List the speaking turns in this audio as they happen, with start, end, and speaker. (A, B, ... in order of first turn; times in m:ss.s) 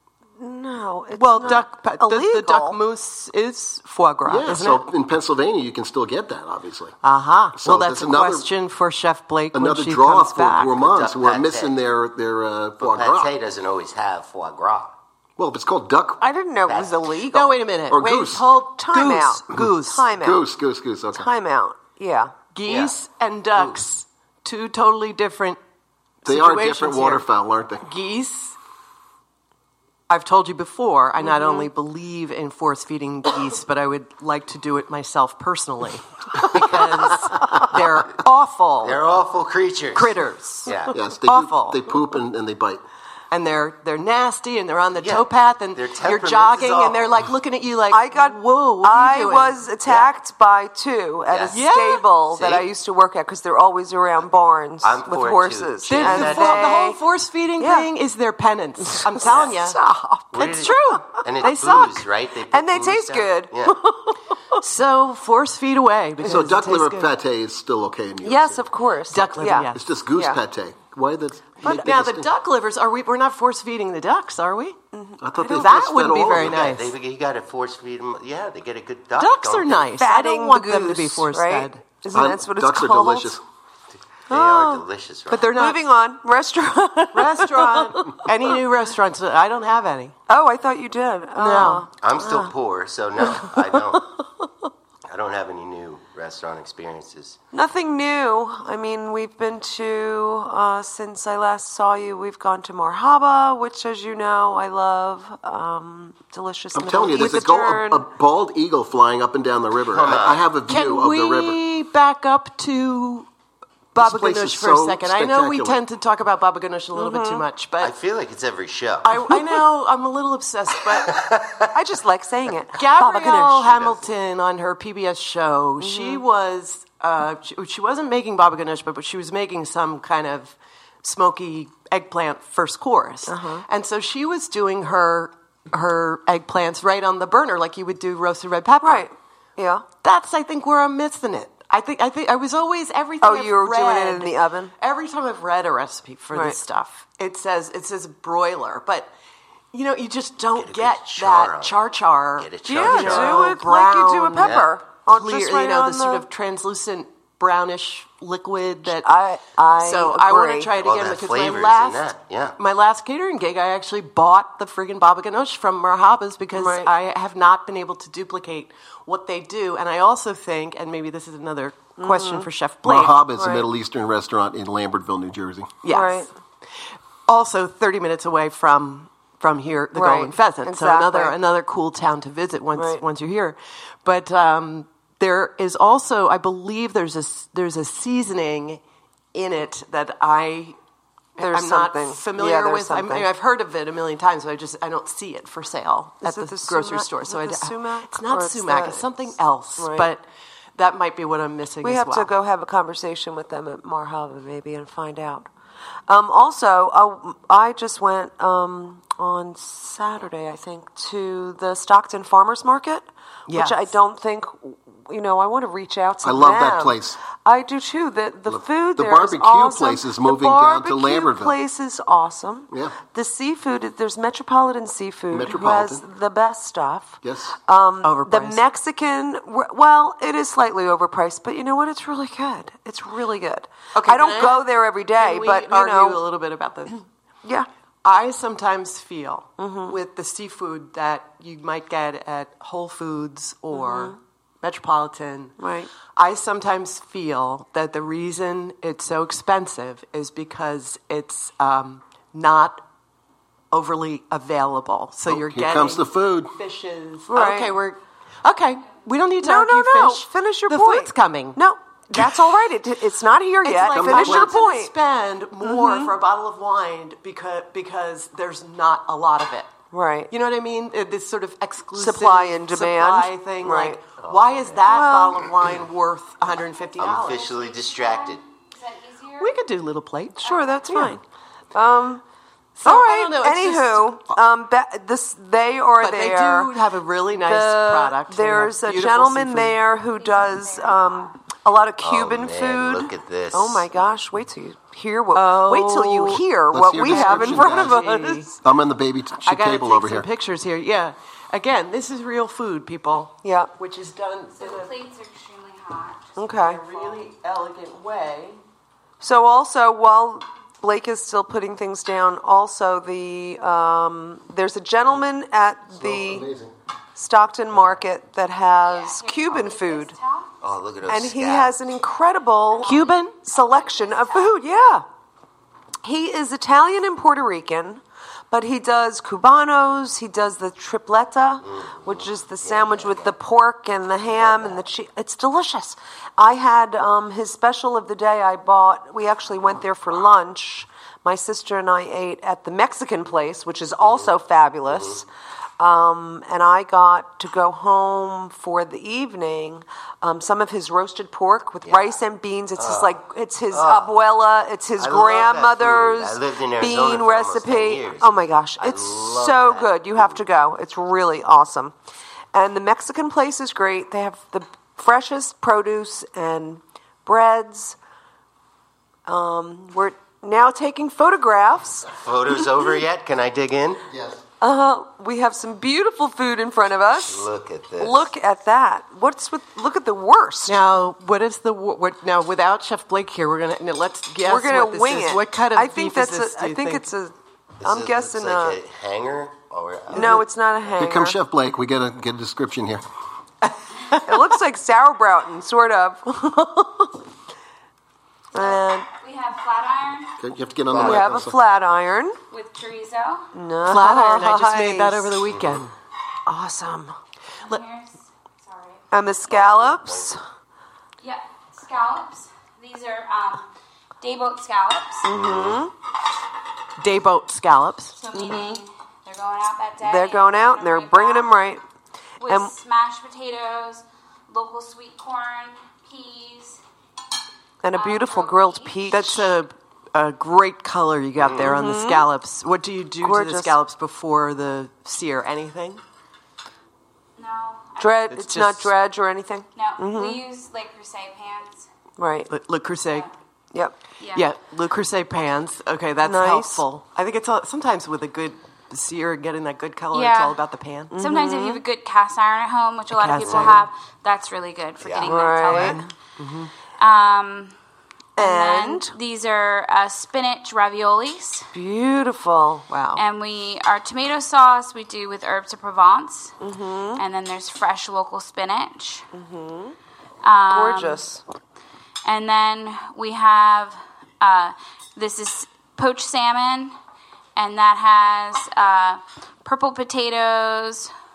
0:00.4-0:02.8 A
0:01.1-0:04.8 B
0:04.2-0:07.0 C
0:07.0-0:10.8 B
0:07.6-0:08.5 C
0:09.5-0:13.3 C
0:10.8-0:11.8 D
0:12.8-0:14.9 D
0:15.4-0:16.2 C
0:16.2-0:17.6 A
0:16.7-0:17.1 D
0:17.3-0:20.1 B
0:17.9-0:18.5 C
0:18.7-0:20.4 A
0:19.5-0:21.3 C
0:21.1-0:22.3 A
0:22.5-0:25.6 B
0:22.7-0:22.9 D
0:26.2-0:27.2 B
0:26.2-0:27.9 C
0:27.8-0:28.5 B
0:30.1-0:39.0 B
0:31.2-0:31.7 A
0:38.8-0:41.0 D
0:39.9-0:42.0 B
0:40.9-0:42.8 C
0:43.3-0:49.6 B
0:45.0-0:47.2 D
0:47.9-0:57.0 A
0:51.3-0:51.6 D
0:51.5-0:52.1 B
0:52.3-0:52.7 D
0:54.8-0:56.9 D
0:55.9-0:59.8 B
0:57.6-0:57.9 A
0:58.9-1:00.4 A
0:59.2-0:59.6 D
1:00.3-1:03.8 D
1:00.3-1:02.0 B
1:02.5-1:04.6 A
1:04.6-1:07.1 B
1:06.2-1:08.6 C
1:08.2-1:10.4 A
1:09.1-1:09.8 B
1:09.7-1:12.3 C
1:11.6-1:14.8 B
1:14.9-1:15.2 A
1:15.2-1:16.8 C
1:15.4-1:16.9 B
1:16.3-1:19.9 D
1:19.2-1:21.8 B
1:20.0-1:23.4 A
1:22.1-1:23.4 C
1:24.3-1:25.6 D
1:24.3-1:24.8 A
1:25.3-1:25.8 B
1:25.5-1:28.3 A
1:27.1-1:30.1 B
1:30.3-1:32.3 A
1:31.4-1:31.9 B
1:32.0-1:34.1 D
1:35.1-1:37.4 D
1:37.5-1:48.0 A
1:46.7-1:51.6 C
1:49.9-1:50.4 D
1:50.7-1:53.3 B
1:53.9-1:57.9 B
1:54.0-1:55.8 C
1:56.9-1:57.4 A
1:57.8-1:59.1 D
1:59.0-2:01.2 B
2:01.0-2:01.7 D
2:01.7-2:03.7 A
2:02.8-2:19.1 B
2:03.6-2:04.0 D
2:05.8-2:06.2 A
2:13.3-2:13.6 A
2:18.8-2:19.8 A
2:20.0-2:29.1 B
2:23.2-2:24.7 A
2:26.3-2:26.6 A
2:29.7-2:39.1 B
2:30.5-2:31.8 D
2:32.4-2:33.6 D
2:32.6-2:36.2 A
2:34.4-2:34.7 D
2:38.9-2:40.7 A
2:39.8-2:53.2 B
2:40.8-2:42.5 D
2:46.5-2:46.9 A
2:52.0-2:52.5 A
2:52.8-2:55.8 C
2:53.3-2:53.7 A
2:55.8-2:56.3 B
2:55.9-2:56.3 A
2:57.3-3:08.8 B
2:59.9-3:01.4 A
3:02.7-3:03.0 A
3:09.3-3:10.8 B
3:11.4-3:20.2 B
3:11.4-3:13.3 A
3:16.2-3:19.1 A
3:19.8-3:20.1 A
3:20.8-3:22.3 B
3:21.8-3:25.5 A
3:26.1-3:56.2 A
3:33.5-3:33.9 B
3:36.2-3:37.2 C
3:38.5-3:41.6 C
3:45.3-3:46.0 C
3:47.2-3:47.5 C
3:48.0-3:48.6 B
3:53.9-3:57.0 B
3:58.0-4:05.6 B
3:59.6-4:00.0 A
4:03.7-4:04.1 A
4:05.6-4:05.9 A
4:06.1-4:12.8 B
4:13.7-4:21.6 B
4:15.3-4:16.5 C
4:17.3-4:17.8 A
4:19.4-4:24.9 A
4:23.6-4:29.7 B
4:23.8-4:24.6 C
4:25.6-4:26.1 A
4:29.9-4:30.3 A
4:30.3-4:37.4 B
4:31.9-4:34.0 A
4:34.2-4:34.8 D
4:34.8-4:35.4 A
4:36.8-4:39.6 E
4:37.0-4:38.4 D
4:39.4-4:41.2 B
4:40.4-4:41.2 A
4:40.4-4:40.8 E
4:41.7-4:42.2 A
4:42.8-4:44.2 B
4:42.8-4:46.7 A
4:46.0-4:49.8 B
4:47.3-4:58.5 A
4:50.1-4:51.3 E
4:52.0-4:54.0 D
4:55.3-4:56.4 B
4:56.7-4:58.0 C
4:57.0-4:58.5 B
4:58.6-5:00.3 C
4:59.4-5:04.9 B
5:03.4-5:03.7 A
5:04.6-5:06.3 E
5:06.4-5:06.8 A
5:06.4-5:08.6 B
5:09.2-5:16.4 A
5:15.9-5:16.7 C
5:17.2-5:20.1 A
5:18.8-5:20.5 E
5:20.6-5:21.8 D
5:21.1-5:25.0 A
5:22.7-5:24.6 E
5:22.8-5:23.4 B
5:26.0-5:45.2 A
5:31.6-5:33.3 D
5:34.2-5:34.8 D
5:44.0-5:44.3 D
5:44.9-5:45.2 D
5:45.8-6:01.9 A
5:51.8-5:52.2 D
5:52.8-5:53.2 D
5:53.7-5:54.1 D
5:55.0-6:00.4 D
6:02.5-6:08.0 A
6:09.3-6:12.1 A
6:12.1-6:14.0 D
6:14.1-6:14.4 C
6:14.6-6:17.5 A
6:17.2-6:18.3 D
6:18.0-6:20.8 A
6:20.6-6:27.0 B
6:24.4-6:28.8 A
6:27.8-6:30.4 D
6:30.1-6:31.4 A
6:30.1-6:30.4 B
6:30.9-6:33.0 C
6:34.2-6:37.1 A
6:38.5-6:40.3 E
6:38.5-6:39.0 A
6:40.4-6:41.6 C
6:40.9-6:41.4 D
6:41.0-6:42.4 A
6:42.5-6:43.4 E
6:43.5-6:45.4 A
6:43.8-6:45.9 B
6:45.4-6:45.8 D
6:46.4-6:47.2 A
6:47.6-6:49.0 E
6:49.1-6:50.4 A
6:49.5-6:50.3 D
6:51.2-6:53.7 E
6:54.2-6:55.3 E
6:55.2-6:55.9 A
6:55.3-6:55.8 D
6:57.0-6:58.1 B
6:58.2-7:01.6 E
6:58.3-6:58.8 A
7:00.0-7:01.8 A
7:02.4-7:06.8 E
7:02.4-7:02.7 A
7:07.8-7:09.5 A
7:07.9-7:09.0 E
7:09.1-7:16.0 B
7:11.4-7:11.6 D
7:11.6-7:12.3 A
7:13.2-7:13.8 A
7:17.4-7:18.3 E
7:18.0-7:20.4 A
7:18.3-7:18.9 B
7:19.7-7:21.9 E
7:22.2-7:22.5 A
7:22.5-7:23.3 B
7:24.2-7:24.5 E
7:24.3-7:31.1 B
7:26.2-7:26.8 A
7:30.1-7:30.6 E
7:31.1-7:31.8 A
7:31.1-7:36.0 E
7:33.1-7:33.8 B
7:33.4-7:33.8 D
7:35.0-7:35.4 D
7:35.2-7:36.0 A
7:35.6-7:36.7 B
7:37.0-7:37.7 E
7:38.4-7:39.1 A
7:38.4-7:41.7 E
7:41.7-7:42.8 A
7:42.9-7:43.2 B
7:43.2-7:46.6 E
7:46.6-7:47.2 A
7:47.2-7:49.2 E
7:49.3-7:49.9 A
7:50.4-7:51.2 E
7:50.7-7:51.4 A
7:52.2-7:56.9 E
7:57.6-8:01.1 E